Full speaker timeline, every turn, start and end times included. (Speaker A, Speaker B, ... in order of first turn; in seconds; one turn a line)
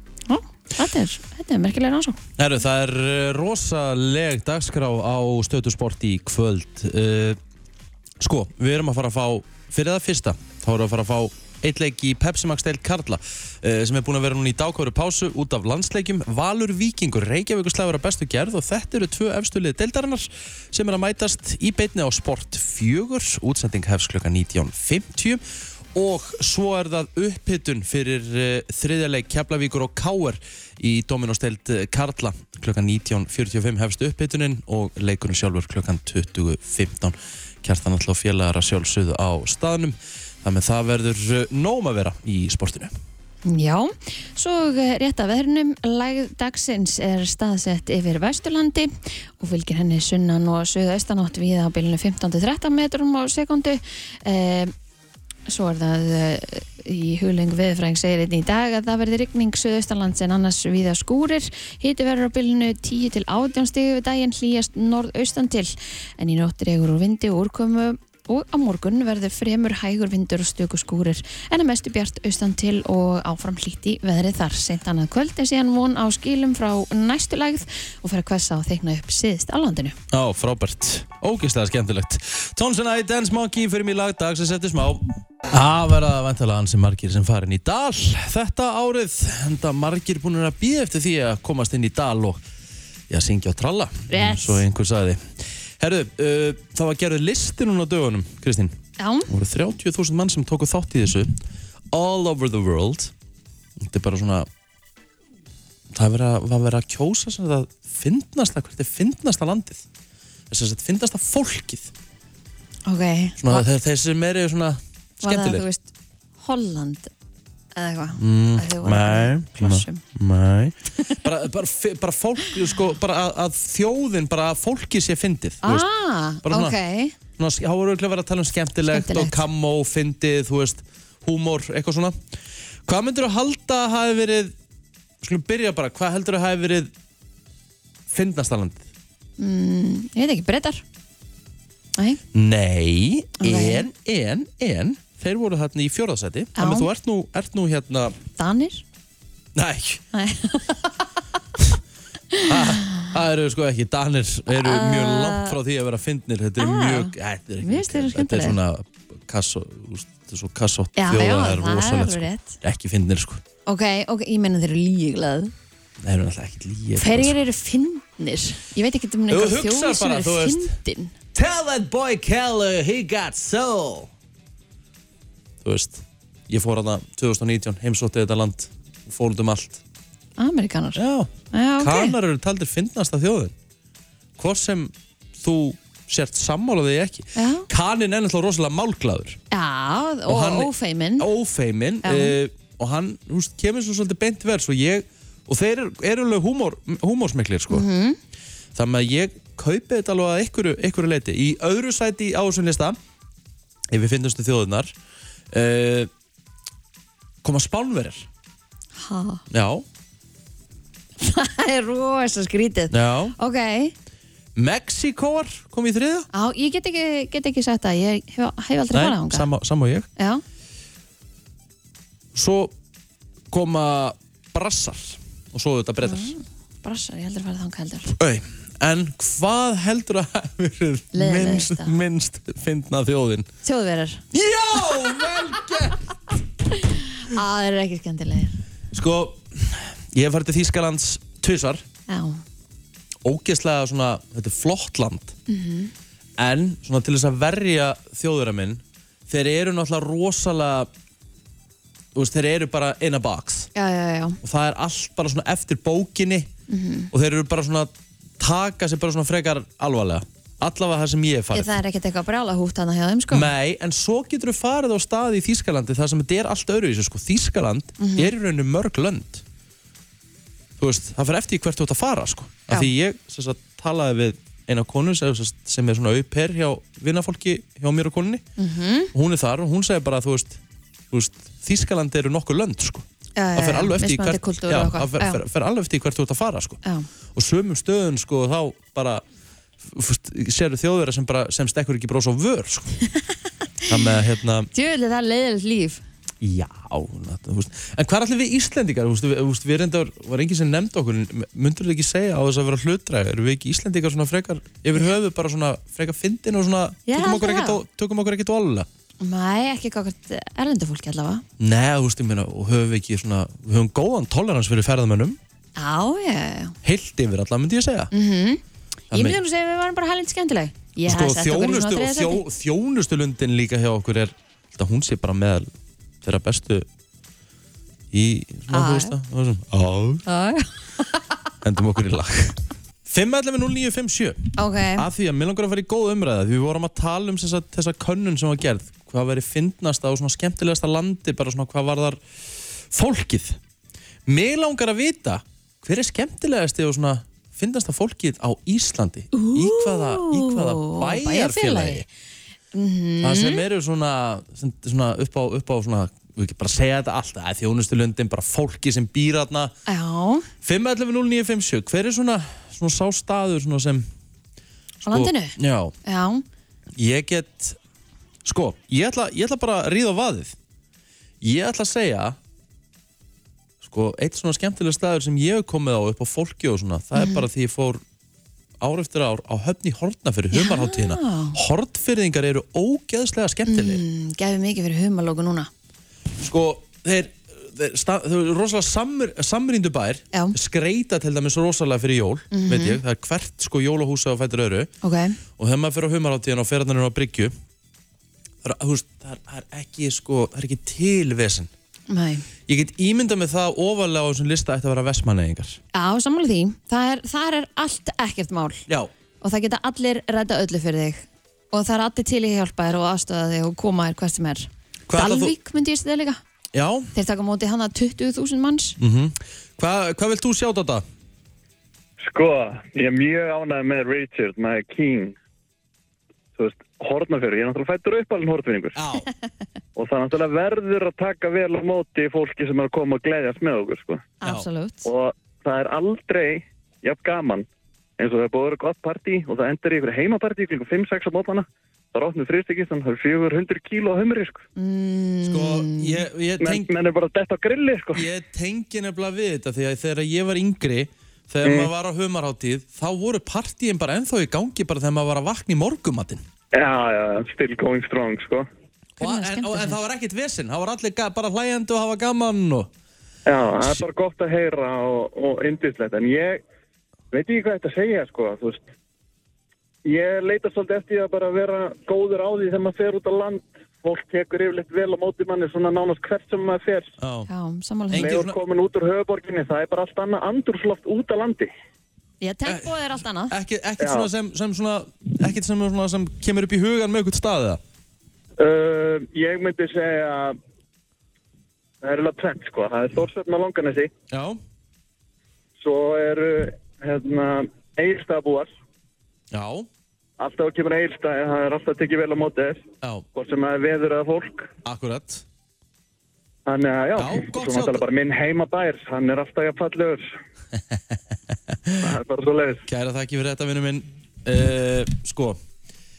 Speaker A: 0.3-2.2
Speaker B: 2.4-7.4
Speaker B: 8.2-25.4
Speaker B: 25.9-42.9
Speaker A: 43.4-54.7
Speaker A: 55.5-80.0
Speaker B: 80.1-92.4
Speaker B: 93.1-95.3
Speaker A: 94.1-94.6
Speaker B: 95.8-98.8
Speaker A: 99.0-99.3
Speaker B: 99.3-101.3
Speaker B: 101.9-103.1
Speaker B: 103.8-104.5
Speaker B: 105.9-109.8
Speaker B: 110.5-111.9
Speaker A: 112.8-113.6
Speaker B: 113.4-115.6
Speaker A: 115.2-117.1
Speaker A: 117.8-120.0
Speaker B: 118.2-125.9
Speaker A: 125.6-127.2
Speaker B: 126.4-126.8
Speaker B: 127.4-132.2
Speaker A: 128.9-129.4
Speaker B: 132.8-134.5
Speaker B: 135.2-136.9
Speaker B: 138.1-138.8
Speaker A: 139.4-140.8
Speaker A: 141.9-142.2
Speaker B: 142.3-148.2
Speaker A: 143.4-143.8
Speaker A: 146.6-146.9
Speaker A: 148.3-148.8
Speaker B: 149.5-150.0
Speaker A: 150.1-150.9
Speaker A: 152.3-153.1
Speaker B: 152.4-163.4
Speaker A: 154.5-155.6
Speaker A: 156.6-158.6
Speaker A: 160.9-162.6
Speaker A: 163.7-165.5
Speaker B: 166.0-167.3
Speaker A: 167.0-171.1
Speaker B: 169.3-170.7
Speaker B: 171.3-174.1
Speaker B: 175.6-179.8
Speaker A: 180.4-181.0
Speaker B: 180.9-183.5
Speaker A: 181.5-182.1
Speaker B: 184.4-189.4
Speaker A: 187.3-187.7
Speaker A: 189.5-191.3
Speaker B: 190.3-197.8
Speaker A: 192.0-192.3
Speaker A: 197.7-198.2
Speaker B: 198.7-203.0
Speaker B: 203.9-204.9
Speaker B: 205.5-206.1
Speaker B: 207.4-208.3
Speaker A: 209.0-209.4
Speaker B: 209.5-209.8
Speaker A: 211.2-213.9
Speaker B: 212.9-213.3
Speaker B: 214.6-216.3
Speaker A: 216.3-219.5
Speaker B: 218.9-220.1
Speaker A: 220.2-220.4
Speaker B: 222.3-222.7
Speaker B: 223.5-226.3
Speaker A: 226.0-228.1
Speaker B: 228.2-233.5
Speaker A: 231.1-231.9
Speaker A: 233.6-234.2
Speaker B: 234.3-236.0
Speaker A: 234.9-235.2
Speaker A: 236.7-238.6
Speaker B: 238.9-241.8
Speaker A: 242.1-242.4
Speaker B: 243.2-245.3
Speaker A: 245.5-245.9
Speaker B: 246.4-250.9
Speaker B: 252.1-253.7
Speaker A: 253.7-254.4
Speaker B: 254.4-256.5
Speaker A: 256.7-257.1
Speaker B: 257.1-261.7
Speaker A: 261.5-263.5
Speaker B: 263.3-269.4
Speaker A: 268.0-268.3
Speaker B: 270.8-278.4
Speaker A: 278.6-279.1
Speaker B: 279.1-286.8
Speaker A: 283.4-285.4
Speaker B: 287.3-289.2
Speaker B: 289.8-292.9
Speaker B: 293.9-294.7
Speaker A: 294.7-296.0
Speaker B: 296.4-308.9
Speaker A: 307.1-307.8
Speaker A: 309.2-311.4
Speaker B: 311.6-315.4
Speaker A: 315.8-316.8
Speaker B: 316.8-318.1
Speaker A: 318.1-322.4
Speaker B: 319.1-319.4
Speaker B: 321.0-325.7
Speaker B: 326.2-326.9
Speaker B: 328.1-330.2
Speaker A: 328.7-329.1
Speaker A: 330.2-331.2
Speaker B: 331.6-342.2
Speaker A: 334.6-335.1
Speaker B: 342.9-343.6
Speaker B: 344.2-352.1
Speaker A: 349.3-352.0
Speaker A: 352.7-353.6
Speaker B: 353.2-359.7
Speaker A: 359.9-360.5
Speaker B: 360.6-364.1
Speaker B: 365.0-365.9
Speaker A: 365.0-366.4
Speaker B: 366.9-367.8
Speaker B: 368.4-370.5
Speaker B: 371.4-372.4
Speaker B: 373.8-378.0
Speaker A: 377.1-377.4
Speaker B: 378.8-384.0
Speaker A: 380.5-381.6
Speaker A: 383.7-385.7
Speaker B: 386.4-394.9
Speaker A: 392.5-393.0
Speaker A: 395.0-395.4
Speaker B: 395.6-397.5
Speaker B: 398.6-401.7
Speaker A: 402.1-402.4
Speaker B: 402.7-405.8
Speaker A: 405.9-408.9
Speaker A: 409.4-416.4
Speaker B: 415.1-415.5
Speaker B: 416.7-417.1
Speaker A: 417.1-419.0
Speaker B: 419.0-421.0
Speaker C: 422.2-425.4
Speaker C: 426.6-429.0
Speaker B: 428.9-429.3
Speaker C: 429.9-434.2
Speaker A: 434.4-435.1
Speaker C: 435.0-437.6
Speaker C: 438.2-444.6
Speaker A: 444.8-446.2
Speaker B: 445.4-446.9
Speaker C: 446.6-448.2
Speaker B: 448.1-456.4
Speaker C: 451.6-451.9
Speaker C: 456.7-458.7
Speaker A: 459.2-460.0
Speaker B: 459.2-462.9
Speaker C: 463.5-466.6
Speaker C: 467.3-468.8
Speaker C: 470.0-477.1
Speaker B: 477.2-477.5
Speaker A: 477.5-478.3
Speaker B: 478.1-478.6
Speaker C: 478.2-481.7
Speaker A: 482.4-483.5
Speaker B: 483.5-487.8
Speaker C: 484.0-484.3
Speaker C: 488.6-490.6
Speaker C: 492.0-494.1
Speaker B: 494.3-494.6
Speaker C: 495.8-498.7
Speaker B: 499.5-499.9
Speaker C: 500.4-502.8
Speaker C: 503.3-504.7
Speaker B: 504.8-505.4
Speaker C: 506.7-510.3
Speaker B: 507.2-508.0
Speaker B: 510.9-511.2
Speaker B: 511.7-512.0
Speaker C: 512.0-512.8
Speaker B: 512.9-515.6